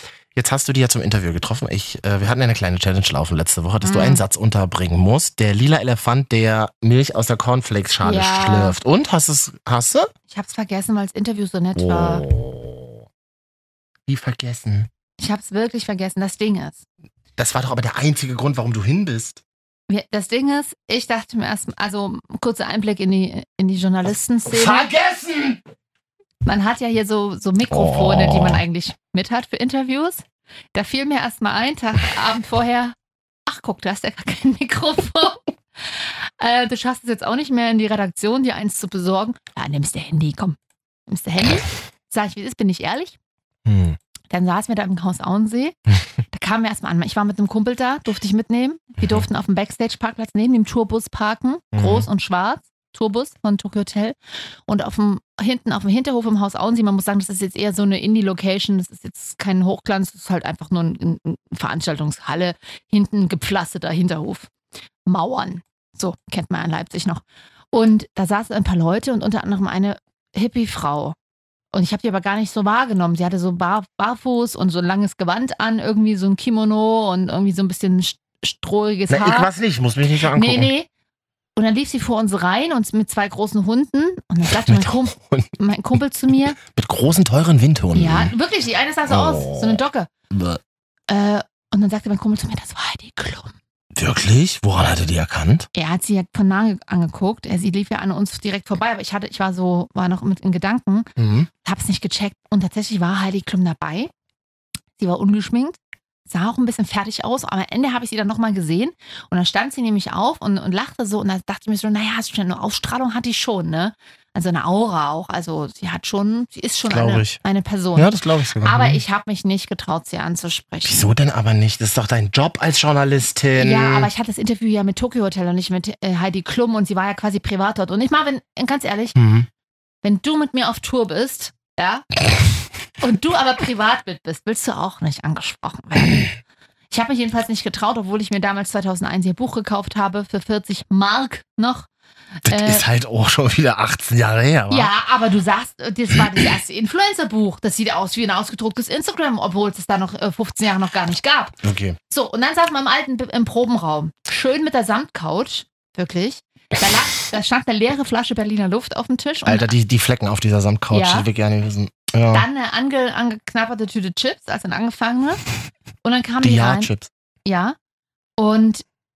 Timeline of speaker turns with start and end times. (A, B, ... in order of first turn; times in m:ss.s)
0:00.3-0:10.1 A
0:03.8-0:04.2 B
0:08.0-0:08.8 B
0:10.3-0:12.2 B
0:11.7-0:13.0 A
0:14.1-0:14.9 A
0:15.2-0:16.8 B
0:17.4-0:19.4 A
0:19.9-0:24.9 B
0:24.5-0:25.6 A
0:26.4-0:33.0 B
0:27.7-0:28.6 A
0:33.5-0:43.2 B
0:43.6-0:44.0 A
0:44.3-0:45.8 B
0:46.3-1:04.5 B
0:51.7-0:52.1 A
1:05.0-1:11.2 B
1:11.7-1:19.5 B
1:19.1-1:20.7 A
1:20.3-1:20.9 B
1:21.6-1:26.6 B
1:24.5-1:25.5 A
1:26.6-1:28.3 A
1:27.9-1:30.1 B
1:29.1-1:30.6 A
1:31.1-1:33.6 B
1:33.9-1:35.7 A
1:35.7-1:41.1 B
1:41.2-1:41.5 A
1:41.6-1:44.1 B
1:45.0-1:58.1 B
1:56.9-1:57.4 A
1:58.0-1:59.0 A
1:58.6-2:01.1 B
2:00.8-2:04.1 A
2:03.6-2:09.2 B
2:09.2-2:09.5 A
2:10.0-2:12.0 B
2:13.0-2:16.3 B
2:16.9-2:21.9 B
2:22.4-2:22.8 B
2:22.4-2:24.9 A
2:24.7-2:31.6 B
2:31.6-2:32.0 A
2:32.1-2:39.7 B
2:39.4-2:42.4 A
2:40.9-2:41.3 B
2:42.3-2:45.4 B
2:46.0-2:46.9 B
2:46.4-2:47.1 A
2:47.4-2:47.8 B
2:48.4-2:48.8 B